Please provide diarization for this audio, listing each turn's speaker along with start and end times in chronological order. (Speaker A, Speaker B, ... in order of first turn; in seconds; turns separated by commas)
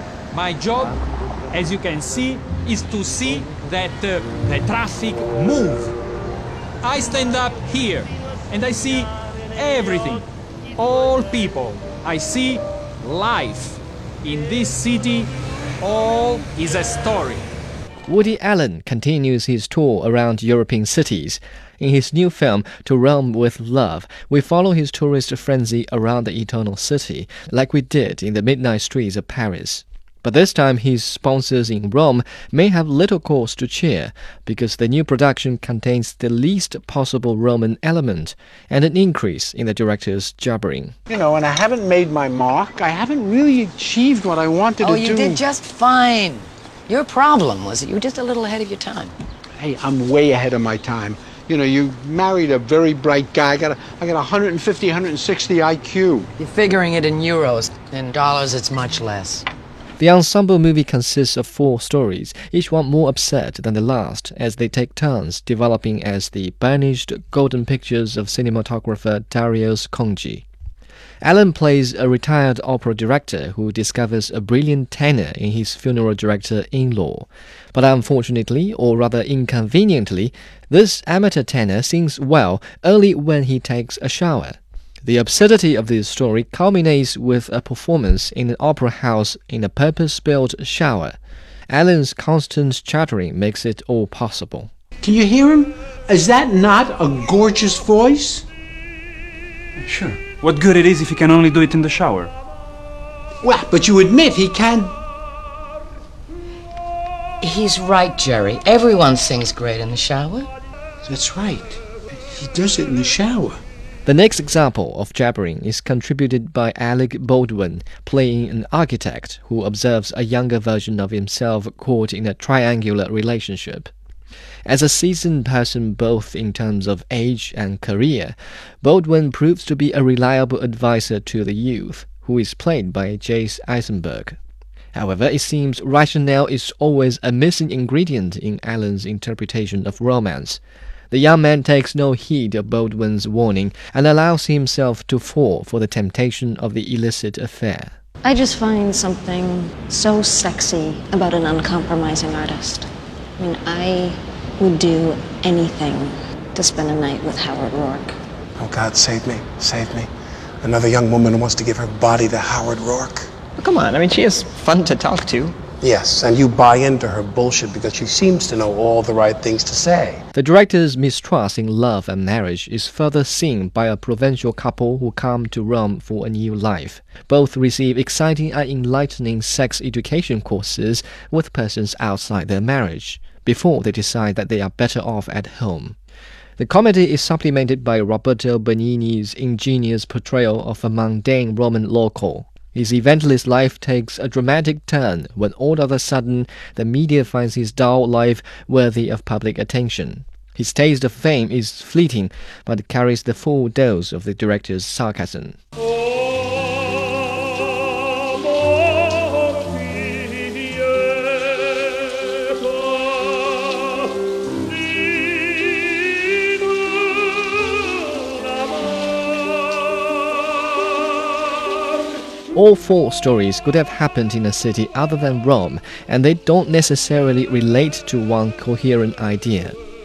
Speaker A: 0.3-1.0, Speaker A: 1.5-5.9, Speaker A: 6.8-10.2, Speaker A: 10.8-15.3, Speaker A: 15.8-17.4, Speaker B: 18.1-40.9, Speaker C: 41.1-45.4, Speaker D: 44.8-49.1, Speaker C: 49.6-56.3, Speaker D: 56.4-59.5, Speaker B: 60.0-70.4, Speaker B: 71.2-91.2, Speaker B: 91.7-94.7, Speaker C: 95.0-98.5, Speaker E: 99.8-102.3, Speaker C: 103.4-104.9, Speaker D: 107.4-110.5, Speaker C: 111.0-113.6, Speaker B: 114.0-123.9, Speaker B: 124.7-134.4, Speaker B: 134.9-140.6, Speaker B: 141.1-147.9, Speaker F: 148.2-158.2, Speaker G: 158.6-160.1, Speaker G: 160.6-163.3, Speaker H: 163.6-165.6, Speaker G: 165.8-170.2, Speaker B: 170.3-185.9, Speaker B: 186.6-205.6, Speaker B: 222.5-229.8